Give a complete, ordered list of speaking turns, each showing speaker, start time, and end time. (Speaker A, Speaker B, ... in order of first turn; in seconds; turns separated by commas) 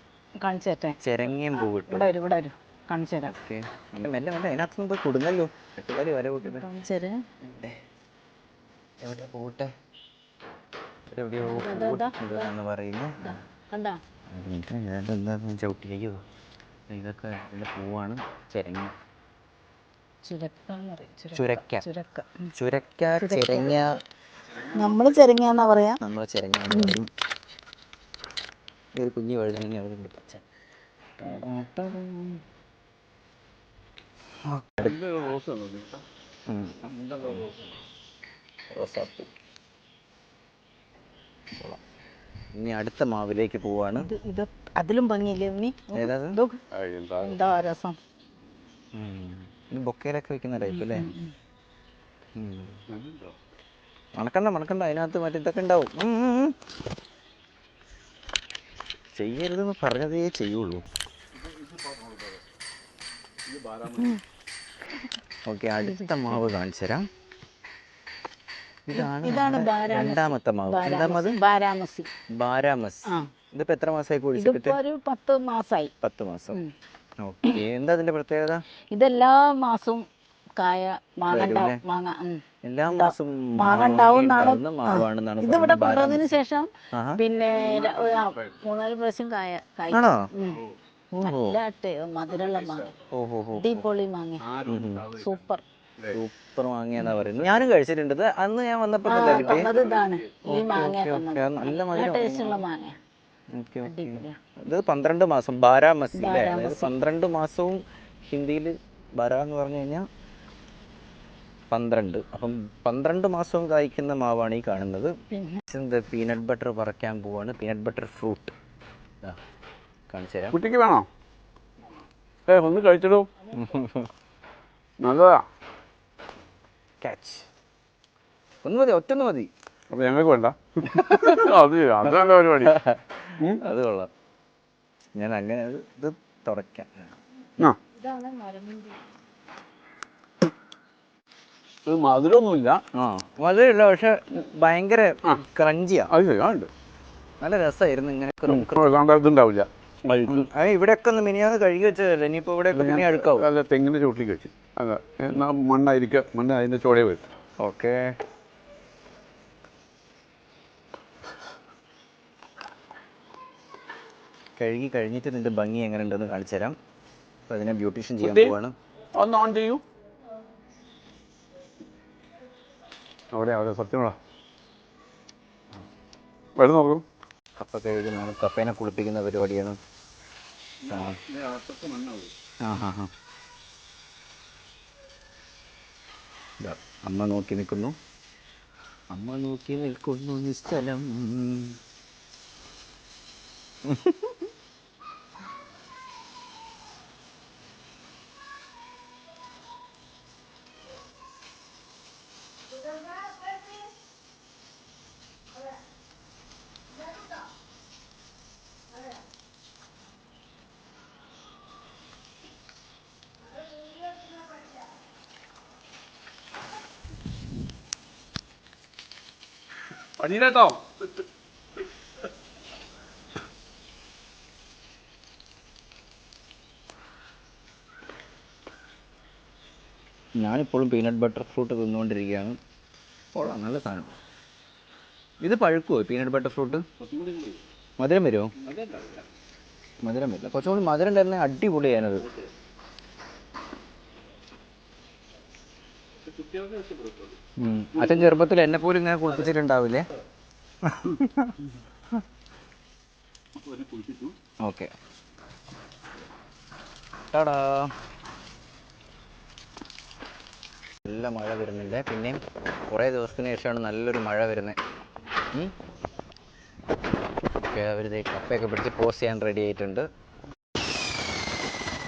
Speaker A: 0.4-1.0, Speaker B: 1.0-2.1, Speaker A: 1.5-3.3, Speaker B: 3.3-6.7, Speaker A: 6.4-7.2, Speaker B: 7.4-7.8, Speaker B: 9.0-9.7, Speaker B: 11.1-13.3, Speaker A: 11.4-12.5, Speaker A: 13.2-14.0, Speaker B: 14.3-16.2, Speaker B: 16.9-18.9, Speaker A: 20.2-22.5, Speaker B: 21.3-21.9, Speaker B: 22.5-23.9, Speaker A: 23.2-23.7, Speaker A: 24.7-26.0, Speaker B: 26.0-27.1, Speaker A: 26.7-27.0, Speaker B: 28.9-30.4, Speaker B: 31.2-32.4, Speaker B: 34.4-35.0, Speaker C: 34.8-36.0, Speaker B: 36.5-37.7, Speaker B: 38.7-39.3, Speaker B: 42.5-44.1, Speaker A: 44.0-46.6, Speaker B: 45.9-46.4, Speaker C: 46.7-47.5, Speaker A: 47.2-48.0, Speaker B: 48.9-51.1, Speaker A: 50.7-51.3, Speaker B: 52.3-52.8, Speaker C: 52.9-53.3, Speaker B: 54.1-56.5, Speaker B: 59.1-60.8, Speaker C: 61.4-62.4, Speaker C: 63.5-64.1, Speaker A: 63.9-64.2, Speaker B: 65.5-67.0, Speaker A: 65.8-66.4, Speaker B: 68.8-71.4, Speaker A: 68.9-72.1, Speaker B: 72.3-74.8, Speaker A: 74.4-75.9, Speaker B: 76.0-76.6, Speaker B: 77.2-78.6, Speaker A: 78.9-80.0, Speaker A: 80.6-90.6, Speaker B: 81.3-81.8, Speaker B: 82.6-86.3, Speaker B: 86.9-87.2, Speaker C: 87.7-88.5, Speaker B: 89.9-90.2, Speaker A: 91.2-92.9, Speaker B: 91.2-91.6, Speaker B: 93.1-93.8, Speaker A: 93.5-94.4, Speaker C: 94.4-95.4, Speaker B: 94.7-95.0, Speaker A: 95.2-95.6, Speaker B: 96.1-99.7, Speaker C: 97.2-97.7, Speaker A: 99.0-102.9, Speaker C: 99.2-100.2, Speaker B: 100.4-102.6, Speaker B: 103.5-110.0, Speaker A: 103.8-104.3, Speaker A: 106.1-106.9, Speaker B: 111.7-115.1, Speaker A: 115.3-115.6, Speaker B: 115.7-118.5, Speaker B: 120.1-120.6, Speaker C: 120.5-121.1, Speaker C: 122.5-123.3, Speaker B: 123.5-124.1, Speaker C: 125.0-125.4, Speaker B: 127.0-127.5, Speaker B: 128.6-129.5, Speaker C: 129.9-132.8, Speaker B: 130.9-131.4, Speaker B: 132.6-134.1, Speaker B: 135.2-137.1, Speaker A: 137.9-139.0, Speaker C: 141.9-142.8, Speaker B: 142.9-146.1, Speaker C: 146.1-146.7, Speaker B: 147.4-148.8, Speaker C: 148.5-150.5, Speaker B: 150.3-153.5, Speaker C: 152.7-157.3, Speaker B: 157.6-158.1, Speaker B: 164.6-166.8, Speaker B: 167.5-168.7, Speaker C: 168.2-168.6, Speaker C: 169.1-169.8, Speaker C: 173.3-174.2, Speaker C: 176.6-177.0, Speaker B: 177.6-179.8, Speaker B: 180.8-181.2, Speaker C: 181.3-182.3, Speaker B: 182.6-183.1, Speaker B: 186.6-187.9, Speaker B: 189.1-191.8, Speaker B: 193.8-194.4, Speaker C: 220.2-220.9, Speaker B: 230.4-232.6, Speaker B: 233.3-234.1, Speaker B: 235.4-236.8, Speaker C: 237.0-237.6, Speaker B: 238.0-238.5, Speaker C: 238.7-239.2, Speaker B: 240.0-242.3, Speaker C: 246.3-247.3, Speaker B: 247.6-250.1, Speaker B: 250.8-251.6, Speaker C: 253.7-254.3, Speaker B: 254.6-254.9, Speaker B: 257.3-257.9, Speaker B: 261.0-264.8, Speaker B: 267.6-270.1